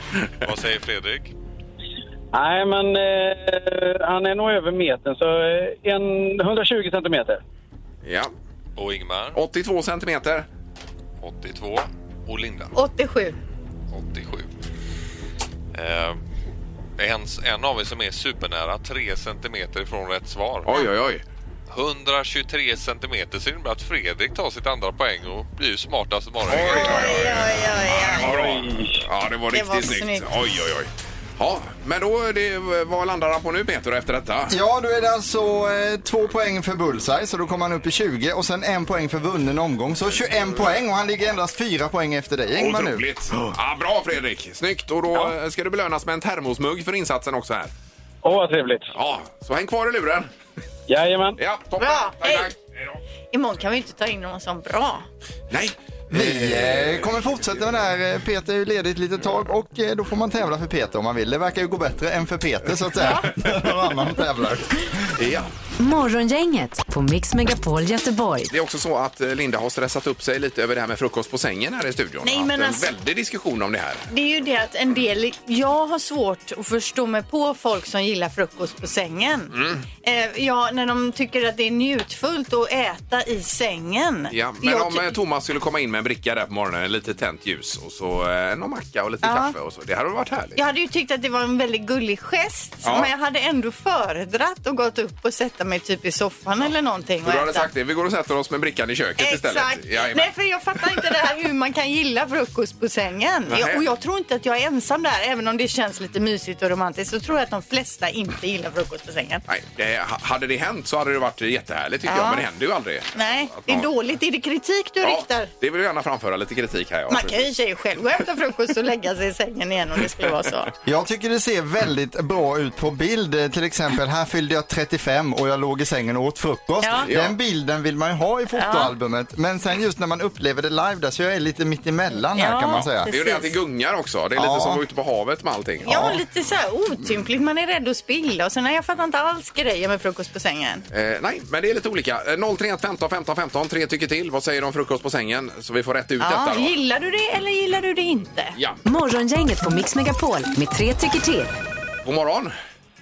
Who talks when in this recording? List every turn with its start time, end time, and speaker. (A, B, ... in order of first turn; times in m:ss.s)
0:00.4-0:01.3 A
0:02.3-0:07.4 B
0:08.0-0:08.3 C
0:08.8-0:09.4 A
0:09.3-0:10.5 C
0:11.2-0:12.7 A
0:12.7-0:13.4 D
0:13.9-0:14.5 A
0:15.7-0:16.2 A
0:17.0-0:20.7 A
0:20.6-0:21.2 C
0:21.7-0:27.2 A
0:26.5-0:34.5 C
0:26.7-0:28.4 D
0:28.3-0:29.0 B
0:29.5-0:30.3 D
0:34.5-0:43.0 E
0:42.5-0:47.7 C
0:48.2-0:48.9 B
0:48.9-0:50.3 C
0:50.9-0:51.4 B
0:51.4-0:52.6 C
0:51.8-0:52.5 D
0:53.3-0:55.0 D
0:55.5-0:57.1 C
0:56.1-1:05.1 E
1:03.0-1:03.2 D
1:05.2-1:05.5 C
1:05.8-1:08.5 F
1:08.5-1:14.1 C
1:12.2-1:12.9 D
1:14.1-1:25.2 D
1:19.5-1:19.8 C
1:24.3-1:30.6 C
1:29.2-1:29.5 D
1:30.6-1:37.7 D
1:32.8-1:33.1 C
1:37.2-1:40.3 C
1:39.2-1:49.4 D
1:43.5-1:43.8 C
1:49.5-1:53.9 C
1:52.1-1:52.4 D
1:53.1-1:55.5 D
1:55.0-1:57.5 C
1:57.1-2:00.7 D
2:00.8-2:13.1 E
2:06.8-2:07.1 D
2:07.0-2:07.3 C
2:08.5-2:08.9 D
2:12.3-2:13.5 D
2:12.7-2:16.1 C
2:14.3-2:14.8 E
2:15.8-2:20.8 D
2:15.8-2:16.2 E
2:20.9-2:26.7 C
2:26.2-2:28.6 D
2:28.8-2:31.6 F
2:32.0-2:32.5 C